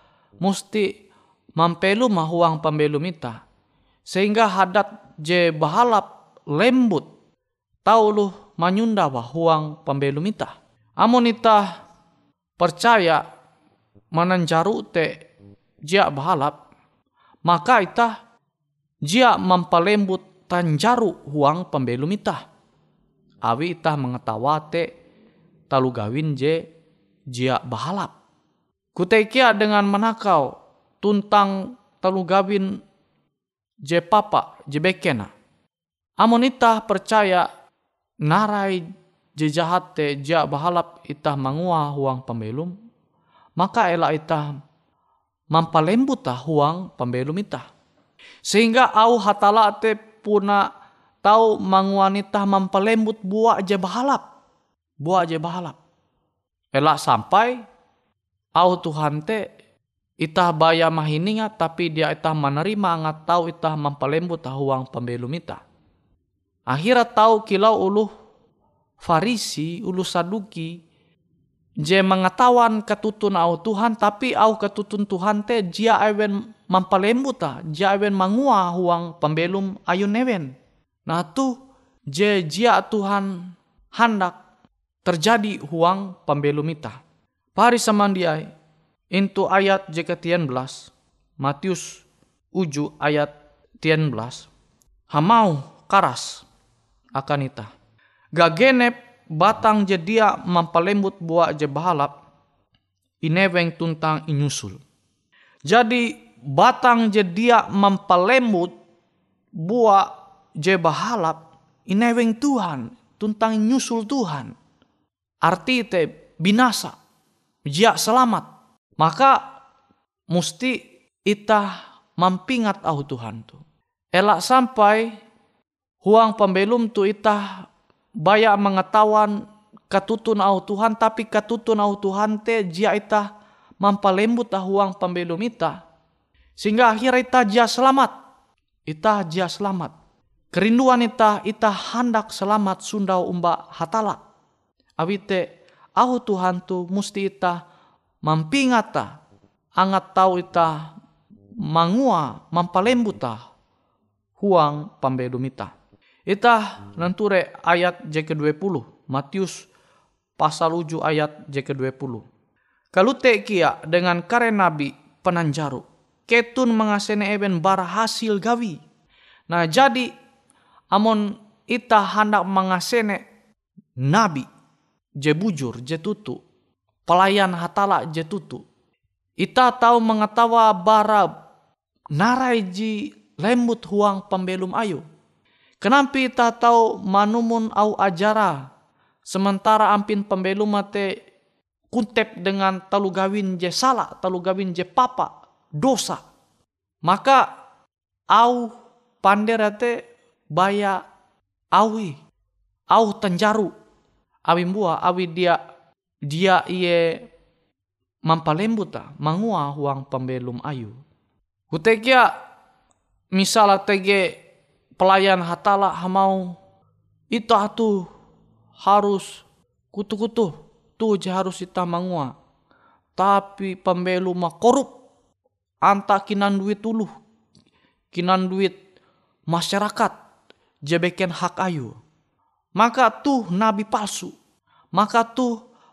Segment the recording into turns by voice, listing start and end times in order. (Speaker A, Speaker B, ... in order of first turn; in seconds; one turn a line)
Speaker A: 0.4-0.9
Speaker A: 1.6-3.4
Speaker A: 4.1-7.1
Speaker A: 7.9-11.7
Speaker A: 12.6-13.2
Speaker A: 14.1-15.2
Speaker A: 15.9-16.6
Speaker A: 17.5-18.1
Speaker A: 19.1-22.4
Speaker A: 23.4-24.9
Speaker A: 25.7-26.6
Speaker A: 27.3-28.1
Speaker A: 28.9-32.7
Speaker A: 33.9-35.3
Speaker A: 36.2-37.5
Speaker A: 38.3-38.8
Speaker A: 39.4-42.7
Speaker A: 43.6-44.5
Speaker A: 45.5-47.6
Speaker A: 48.5-50.7
Speaker A: 51.2-54.2
Speaker A: 55.0-55.8
Speaker A: 56.7-57.6
Speaker A: 58.6-59.4
Speaker A: 60.2-65.6
Speaker A: 66.7-68.1
Speaker A: 69.0-70.8
Speaker A: 71.8-80.5
Speaker A: 81.1-81.5
Speaker A: 82.1-84.4
Speaker A: 85.0-87.0
Speaker A: 87.6-88.5
Speaker A: 89.1-92.0
Speaker A: 92.6-94.5
Speaker A: 95.1-96.5
Speaker A: 97.2-97.7
Speaker A: 98.4-102.1
Speaker A: 103.2-104.8
Speaker A: 105.7-108.7
Speaker A: 109.6-110.1
Speaker A: 110.6-114.5
Speaker A: 115.4-117.0
Speaker A: 117.7-118.5
Speaker A: 119.0-119.4
Speaker A: 120.3-123.6
Speaker A: 124.2-125.2
Speaker A: 126.0-127.7
Speaker A: 128.2-129.3
Speaker A: 129.9-133.3
Speaker A: 133.8-135.8
Speaker A: 136.6-138.1
Speaker A: 138.9-139.9
Speaker A: 140.5-144.2
Speaker A: 145.0-145.4
Speaker A: 146.0-147.6
Speaker A: 148.2-149.2
Speaker A: 149.8-150.9
Speaker A: 151.7-153.4
Speaker A: 154.4-155.7
Speaker A: 156.3-159.7
Speaker A: 160.4-162.2
Speaker A: 162.9-168.8
Speaker A: 169.5-170.1
Speaker A: 170.9-173.2
Speaker A: 174.0-174.5
Speaker A: 175.2-176.4
Speaker A: 177.1-178.6
Speaker A: 179.4-181.3
Speaker A: 182.2-185.0
Speaker A: 185.8-188.6
Speaker A: 189.3-191.1
Speaker A: 191.9-196.2
Speaker A: 197.1-197.4
Speaker A: 198.3-198.7
Speaker A: 199.2-199.9
Speaker A: 200.6-201.0
Speaker A: 201.8-202.2
Speaker A: 202.9-203.7
Speaker A: 204.5-205.6
Speaker A: 206.3-207.1
Speaker A: 208.3-210.9
Speaker A: 211.7-212.3
Speaker A: 213.4-214.3
Speaker A: 215.0-216.5
Speaker A: 217.3-218.1
Speaker A: 218.8-219.3
Speaker A: 219.9-222.3
Speaker A: 223.2-224.9
Speaker A: 225.8-227.1
Speaker A: 228.1-228.8
Speaker A: 229.5-230.2
Speaker A: 230.9-232.0
Speaker A: 232.8-234.3
Speaker A: 234.9-235.5